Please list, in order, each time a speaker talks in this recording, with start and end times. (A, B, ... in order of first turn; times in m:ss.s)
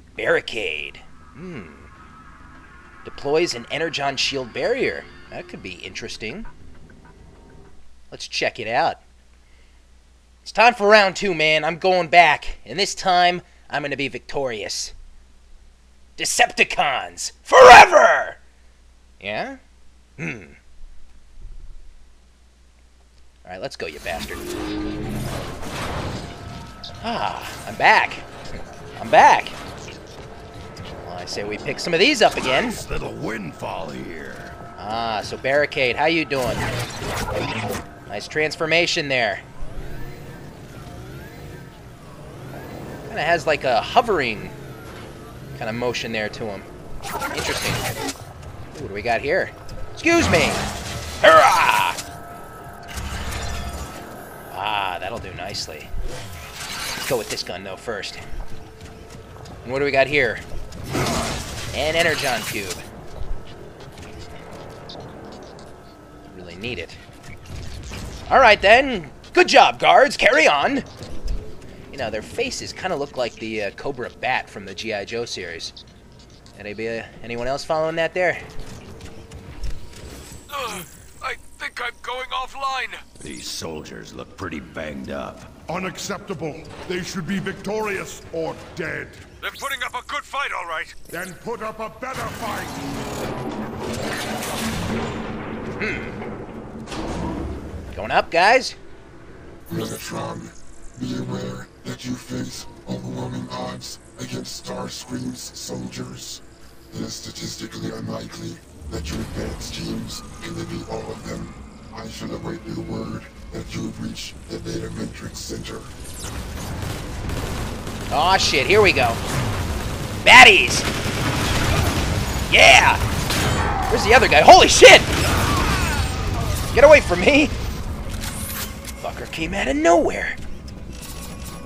0:00.2-0:01.9 A
0:03.0-0:06.5 A
0:08.1-0:09.0 A
0:10.4-0:14.9 A
0:16.2-0:18.4 A
0:19.2-0:19.6 A
0:20.2-0:20.6 A
0:23.4-0:24.5 A
0:27.0-0:28.3 A
0:29.0-0:29.6 A
0:31.0-0:32.8 A
0:32.4-0:34.6 B
0:34.8-0:36.7 A
0:38.1-0:39.4 A
0:43.1-0:44.6 A
0:45.6-0:46.7 A
0:47.3-0:47.9 A
0:48.7-0:50.6 A
0:51.2-0:52.0 A
0:54.5-0:55.9 A
0:57.0-0:58.2 A
0:59.6-1:00.4 A
1:01.7-1:02.8 A
1:06.3-1:07.0 A
1:08.3-1:10.9 A
1:11.9-1:15.8 A
1:16.6-1:18.4 A
1:20.5-1:23.1 C
1:23.2-1:25.5 B
1:25.7-1:29.3 D
1:29.4-1:31.0 C
1:31.1-1:32.8 D
1:35.8-1:36.2 A
1:37.9-1:38.8 A
1:39.7-1:55.9 E
1:58.1-1:59.2 A
2:00.2-2:00.9 A
2:02.5-2:03.0 A
2:03.9-2:05.1 A
2:06.7-2:07.6 A
2:09.0-2:10.4 A